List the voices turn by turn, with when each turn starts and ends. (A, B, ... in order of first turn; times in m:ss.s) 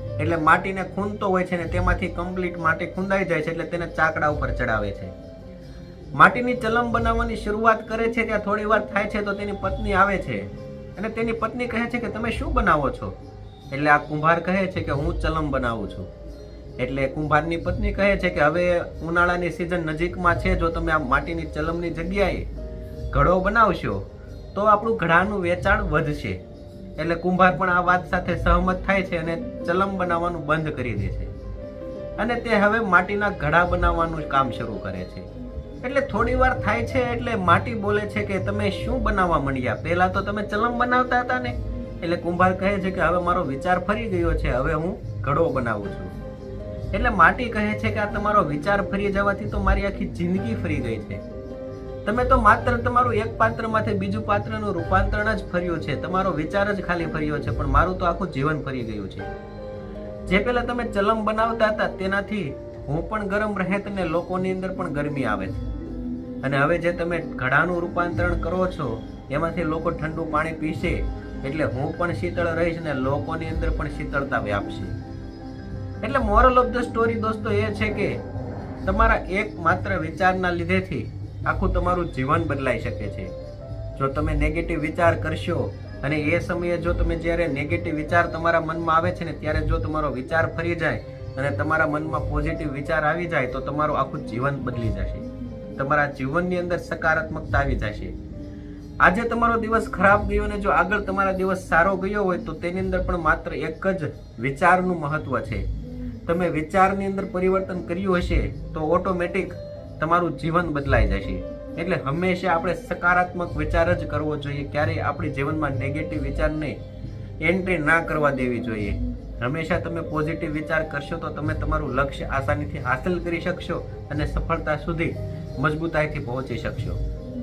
0:00.2-0:05.1 A
0:06.2-0:13.2 A
0:13.7-0:16.1 A
0:16.8-0:22.5 A
0:23.1-0:26.4 A
0:27.0-0:31.3 A
0:32.2-0:35.3 A
0:35.8-0:46.1 A
0:46.9-0:51.2 A
0:52.1-0:59.3 A
1:00.3-1:05.6 A
1:06.4-1:15.0 A
1:16.0-1:18.2 A
1:18.8-1:23.3 A
1:24.0-1:35.3 A
1:35.8-1:38.1 A
1:39.0-1:45.7 A
1:46.3-1:56.8 A
1:57.4-2:07.0 A